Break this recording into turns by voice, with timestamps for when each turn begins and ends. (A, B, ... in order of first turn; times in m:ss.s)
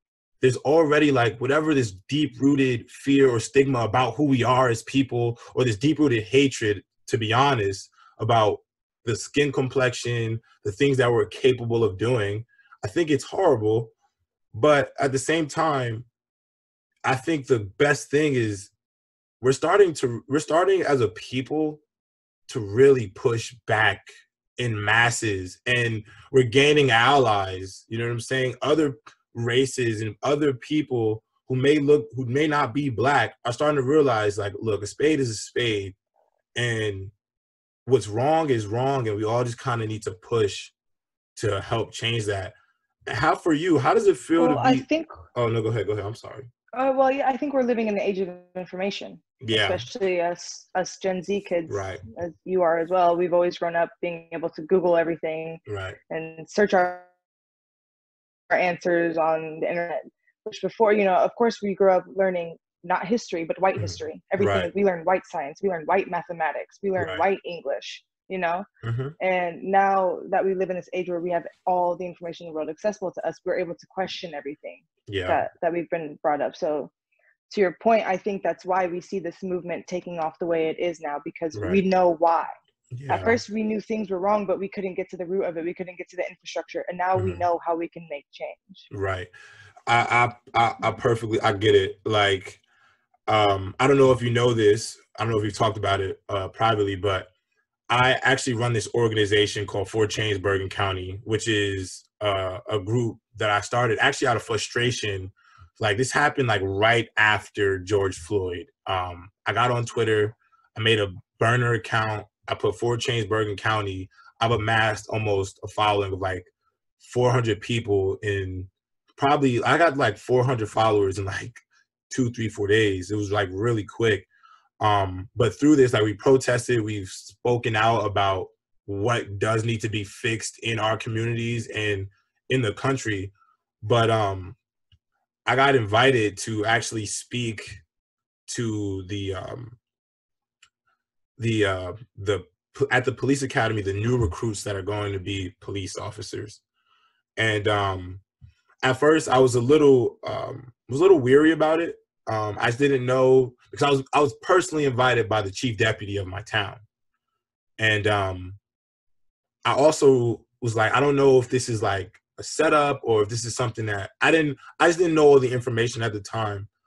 0:00.4-0:13.9 A
0:14.5-0:16.1 A
0:17.0-0:18.7 A
0:19.4-0:21.8 A
0:22.5-0:24.1 A
0:24.6-0:36.0 A
0:36.6-0:37.1 A
0:37.9-0:40.7 A
0:41.4-0:42.6 A
0:43.1-0:46.5 A
0:44.4-0:45.2 B
0:46.7-0:57.1 B
0:49.4-0:49.8 A
0:51.7-0:52.0 A
0:55.7-0:56.0 A
0:58.5-1:08.6 B
1:03.8-1:04.7 A
1:07.0-1:07.2 A
1:08.8-1:09.1 A
1:09.2-1:16.9 B
1:15.1-1:15.4 A
1:17.5-1:22.5 B
1:21.5-1:21.8 A
1:22.9-1:23.4 A
1:23.1-1:28.9 B
1:27.2-1:27.5 A
1:28.9-1:29.3 A
1:29.9-1:32.6 A
1:33.3-1:37.3 A
1:37.9-2:04.3 A
2:04.8-2:14.6 A
2:15.5-2:17.8 A
2:18.5-2:19.8 A
2:21.4-2:26.6 A
2:27.4-2:28.2 A
2:28.8-2:36.8 A
2:37.8-2:38.6 A
2:39.6-2:46.7 A